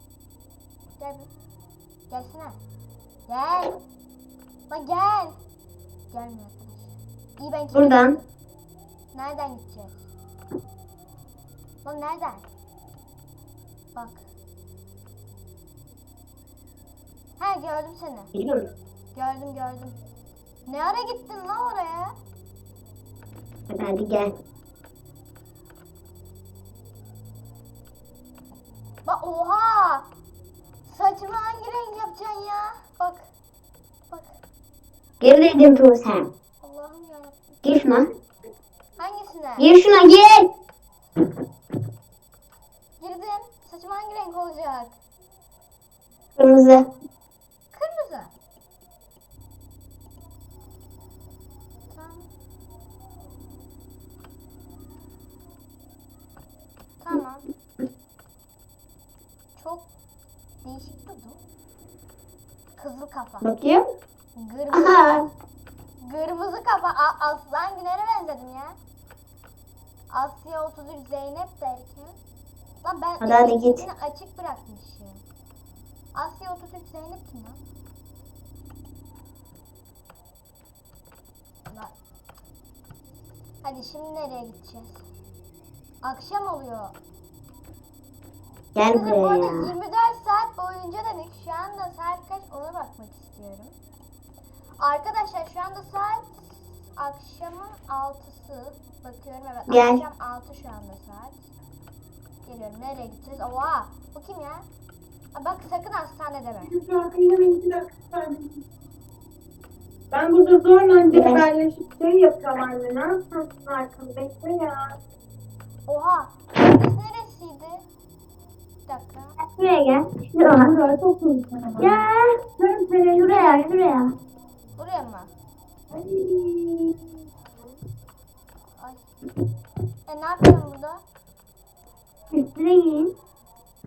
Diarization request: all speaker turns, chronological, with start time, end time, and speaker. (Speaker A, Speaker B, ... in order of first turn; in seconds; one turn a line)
Speaker A: 1.0-1.3
Speaker A: 2.1-2.6
Speaker A: 3.3-3.8
Speaker A: 4.7-5.4
Speaker A: 6.1-8.2
Speaker B: 7.7-8.2
Speaker A: 9.1-10.1
Speaker A: 11.8-12.5
Speaker A: 13.9-14.3
Speaker A: 17.4-18.3
Speaker B: 18.3-18.7
Speaker A: 19.1-20.0
Speaker A: 20.7-22.1
Speaker B: 23.7-24.3
Speaker A: 29.1-30.1
Speaker A: 30.9-33.3
Speaker A: 34.1-34.4
Speaker B: 35.2-36.3
Speaker A: 36.6-37.5
Speaker B: 37.6-38.1
Speaker A: 39.0-39.7
Speaker B: 39.6-40.5
Speaker A: 43.0-45.0
Speaker B: 46.4-46.9
Speaker A: 47.7-48.3
Speaker A: 51.9-52.3
Speaker A: 57.0-57.5
Speaker A: 59.5-59.9
Speaker A: 60.6-61.4
Speaker A: 62.8-63.5
Speaker B: 63.4-63.8
Speaker A: 64.4-65.2
Speaker B: 64.7-65.3
Speaker A: 66.0-68.8
Speaker A: 70.1-72.2
Speaker A: 72.8-75.2
Speaker B: 73.2-73.8
Speaker A: 76.1-77.6
Speaker A: 83.6-85.0
Speaker A: 86.0-87.0
Speaker B: 88.8-89.7
Speaker A: 88.9-93.8
Speaker A: 94.8-101.5
Speaker B: 99.7-100.0
Speaker A: 102.5-104.7
Speaker A: 105.3-106.8
Speaker C: 106.8-108.5
Speaker C: 110.1-114.9
Speaker B: 111.1-111.5
Speaker A: 115.9-117.8
Speaker A: 118.9-119.4
Speaker B: 119.4-120.8
Speaker C: 120.6-121.9
Speaker B: 121.8-122.5
Speaker C: 122.6-123.6
Speaker B: 123.1-124.1
Speaker A: 124.8-125.3
Speaker C: 126.0-126.7
Speaker A: 128.8-129.1
Speaker A: 130.1-131.0
Speaker B: 132.3-133.1